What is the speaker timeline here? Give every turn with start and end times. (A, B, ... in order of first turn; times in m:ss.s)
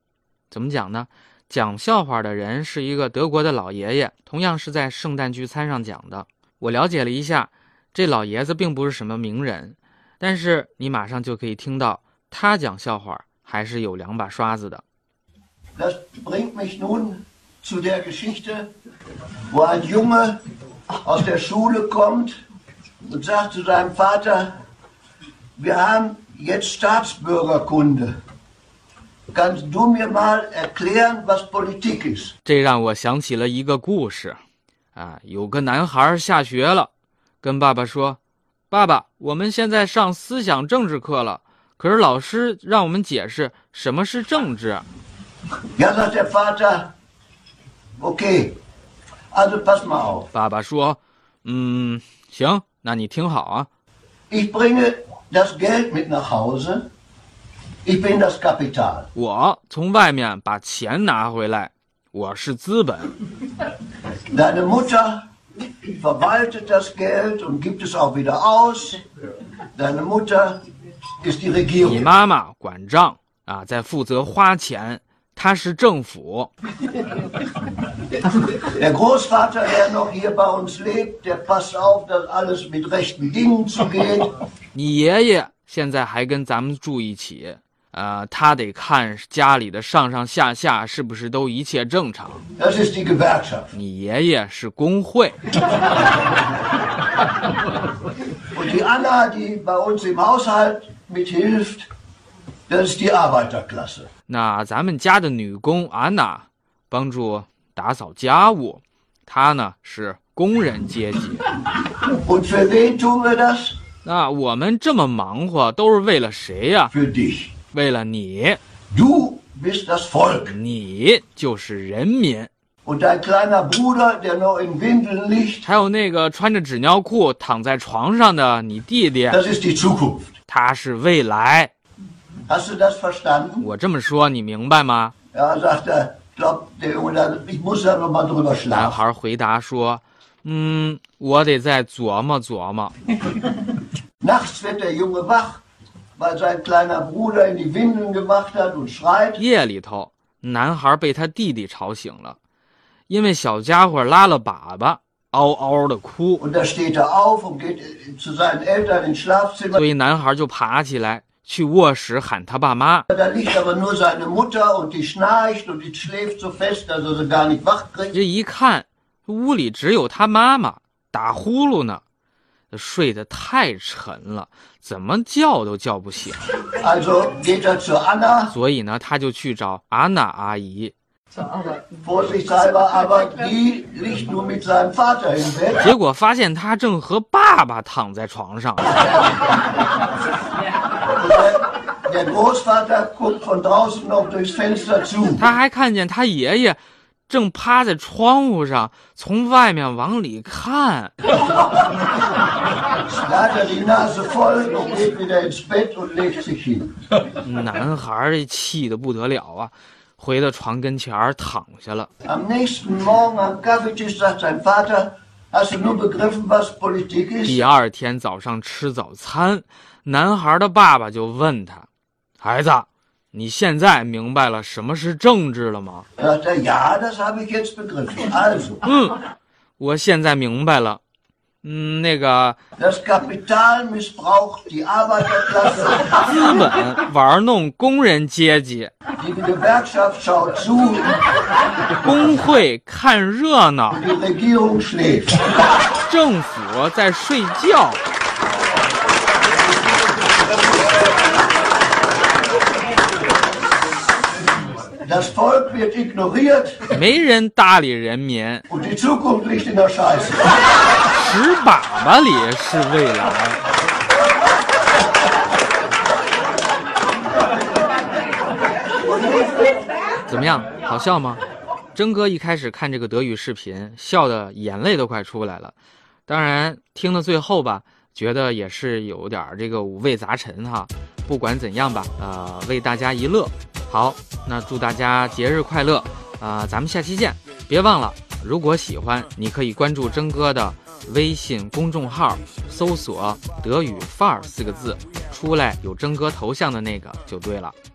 0:00.5-0:14.8 A
0:15.8-0:18.7 B
0:19.5-0:20.4 B
0:21.0-0:22.3 B
0:23.1-0:24.5 B
0:25.6-0:28.2 B
0:29.3-0:32.3 B
0:32.5-0:34.4 A
0:35.0-0:36.9 A
0:37.4-0:38.2 A
0:38.7-0:44.8 A
0:45.8-0:46.9 B
0:48.0-0:48.6 B
0:49.3-0:50.3 B
0:50.3-0:53.7 A
0:54.3-0:56.9 B
0:57.8-0:59.1 B
0:59.2-1:03.1 A
1:04.3-1:05.2 B
1:06.0-1:09.0 B
1:09.8-1:10.6 B
1:11.2-1:12.1 B
1:11.8-1:16.5 A
1:18.6-1:24.3 B
1:24.7-1:32.4 A
1:32.6-1:33.7 B
1:33.7-1:35.4 A
1:38.5-1:41.9 B
1:42.7-1:44.1 B
1:44.3-1:51.5 A
1:52.1-1:53.8 B
1:54.0-1:56.9 A
1:56.9-1:57.5 B
1:57.7-1:58.6 A
1:58.9-2:00.6 B
2:00.5-2:02.5 A
2:02.8-2:05.6 B
2:05.6-2:09.4 A
2:09.3-2:10.4 B
2:10.5-2:11.7 A
2:12.5-2:13.7 B
2:13.6-2:15.1 A
2:15.3-2:19.0 B
2:18.7-2:22.9 A
2:24.2-2:25.6 B
2:26.2-2:29.4 B
2:29.4-2:32.4 A
2:33.1-2:36.4 A
2:36.4-2:39.8 B
2:39.7-2:43.1 A
2:43.1-2:48.2 B
2:48.1-2:52.0 A
2:52.7-2:56.4 A
2:56.8-2:58.6 B
2:58.5-3:00.9 A
3:01.9-3:05.9 B
3:05.8-3:09.0 A
3:11.1-3:15.5 B
3:15.4-3:21.1 A
3:23.1-3:26.9 B
3:27.4-3:32.1 A
3:32.2-3:37.7 B
3:37.4-3:41.9 A
3:42.4-3:46.1 A
3:46.2-3:48.9 B
3:48.8-3:49.2 A
3:49.8-3:51.0 A
3:51.6-3:52.6 A
3:52.8-3:56.2 B
3:56.2-3:58.9 A
3:59.2-4:01.2 B
4:02.0-4:04.0 A
4:03.9-4:05.4 B
4:06.0-4:08.0 A
4:15.0-4:16.9 B
4:16.9-4:18.6 A
4:18.7-4:20.5 B
4:21.1-4:23.6 A
4:29.1-4:29.6 B
4:30.3-4:31.4 A
4:32.0-4:35.8 A
4:36.3-4:57.7 A